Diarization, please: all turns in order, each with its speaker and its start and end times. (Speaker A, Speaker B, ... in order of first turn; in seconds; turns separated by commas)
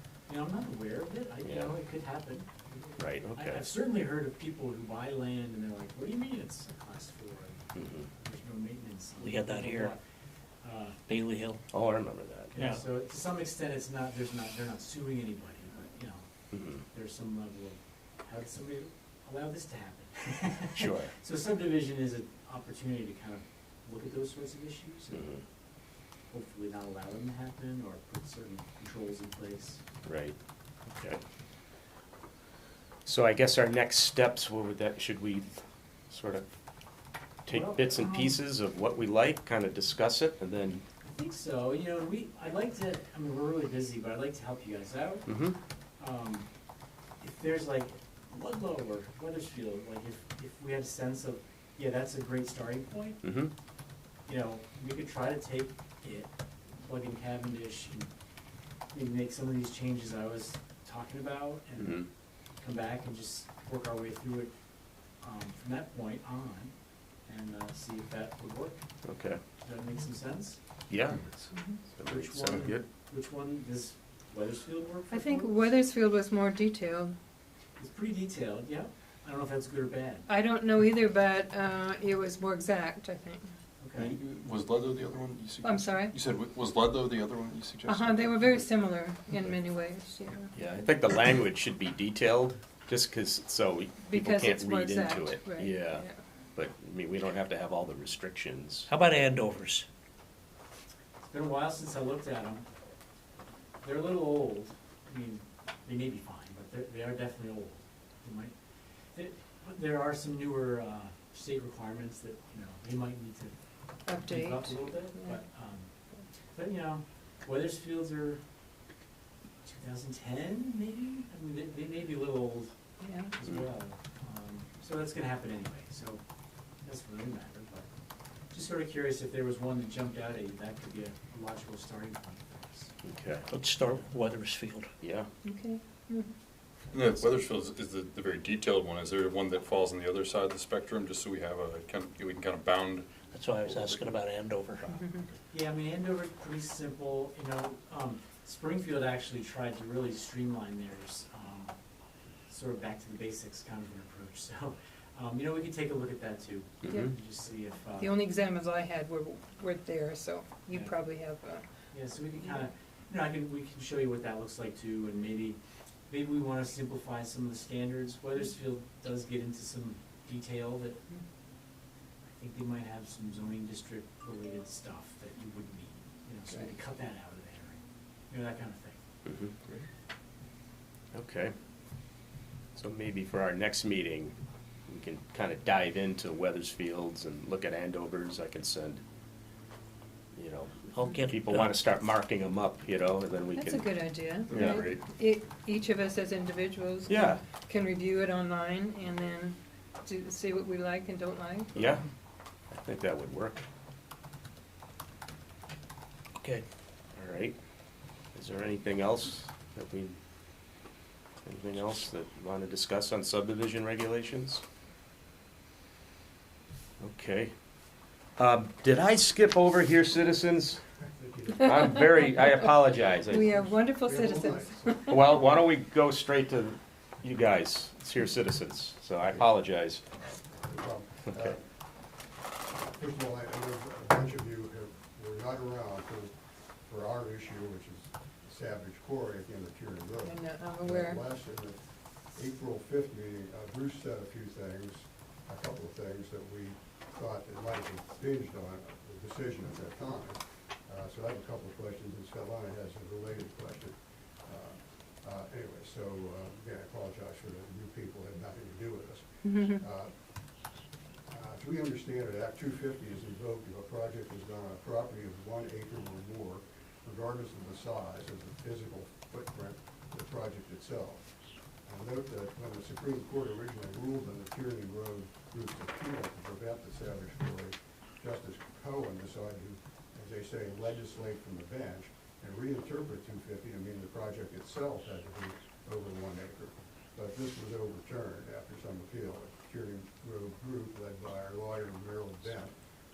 Speaker A: 0.3-10.0, Speaker B: 1.4-1.8, Speaker B: 3.0-3.7, Speaker B: 7.8-8.1, Speaker C: 9.2-9.9, Speaker A: 10.6-11.0, Speaker C: 11.1-11.6, Speaker B: 11.7-12.5, Speaker A: 12.5-16.2, Speaker C: 12.6-12.8, Speaker B: 16.5-16.8, Speaker A: 16.9-25.4, Speaker B: 20.8-21.1, Speaker B: 25.1-25.4, Speaker A: 26.3-29.8, Speaker B: 30.0-30.4, Speaker B: 30.9-31.2, Speaker B: 33.1-36.5, Speaker B: 37.5-40.8, Speaker A: 37.5-38.4, Speaker A: 41.0-45.3, Speaker B: 45.3-45.6, Speaker A: 46.0-46.5, Speaker A: 47.2-53.2, Speaker B: 53.2-53.5, Speaker A: 54.3-58.1, Speaker A: 58.9-62.1, Speaker B: 61.8-62.1, Speaker A: 62.6-64.5, Speaker A: 65.2-66.7, Speaker A: 67.3-68.8, Speaker B: 69.0-69.4, Speaker A: 69.6-70.6, Speaker B: 70.9-72.8, Speaker D: 71.5-71.8, Speaker A: 72.0-75.6, Speaker D: 75.1-77.2, Speaker A: 77.8-80.3, Speaker D: 80.3-83.5, Speaker A: 83.8-84.1, Speaker E: 84.0-88.7, Speaker D: 85.6-86.1, Speaker D: 87.9-90.5, Speaker B: 90.5-98.9, Speaker D: 94.0-96.2, Speaker C: 98.9-99.9, Speaker A: 101.2-102.6, Speaker A: 103.8-108.5, Speaker A: 109.2-113.5, Speaker D: 114.1-115.4, Speaker A: 114.1-115.9, Speaker A: 116.5-118.4, Speaker A: 119.7-122.7, Speaker D: 123.0-123.3, Speaker A: 123.3-126.2, Speaker A: 126.8-127.9, Speaker A: 128.5-132.9, Speaker B: 133.0-133.5, Speaker C: 133.5-134.9, Speaker B: 135.0-135.3, Speaker D: 135.4-136.3, Speaker E: 136.9-144.1, Speaker C: 143.3-145.2, Speaker D: 144.9-145.2, Speaker A: 145.5-151.7, Speaker A: 152.5-158.2, Speaker B: 156.8-157.1, Speaker D: 156.9-157.1, Speaker D: 158.0-161.7, Speaker A: 160.7-160.9, Speaker A: 161.9-165.6, Speaker A: 166.1-171.0, Speaker A: 172.3-177.8, Speaker A: 178.3-179.0, Speaker B: 179.3-179.5, Speaker B: 181.1-181.5, Speaker B: 182.8-184.4, Speaker B: 184.9-189.0, Speaker B: 190.3-194.9, Speaker C: 190.9-192.0, Speaker D: 193.6-201.8, Speaker E: 194.5-195.0, Speaker B: 197.1-197.4, Speaker B: 201.8-202.0, Speaker B: 202.7-203.7, Speaker B: 207.2-207.6, Speaker B: 208.3-210.2, Speaker B: 211.4-214.6, Speaker B: 217.0-217.5, Speaker B: 218.4-220.8, Speaker F: 221.1-221.8, Speaker B: 221.5-223.6, Speaker D: 223.3-225.2, Speaker F: 223.4-224.9, Speaker B: 225.1-230.0, Speaker F: 230.6-231.7, Speaker F: 232.9-236.3, Speaker F: 236.8-260.1, Speaker D: 240.2-241.2, Speaker D: 259.4-259.8, Speaker F: 261.3-271.3, Speaker F: 271.8-292.7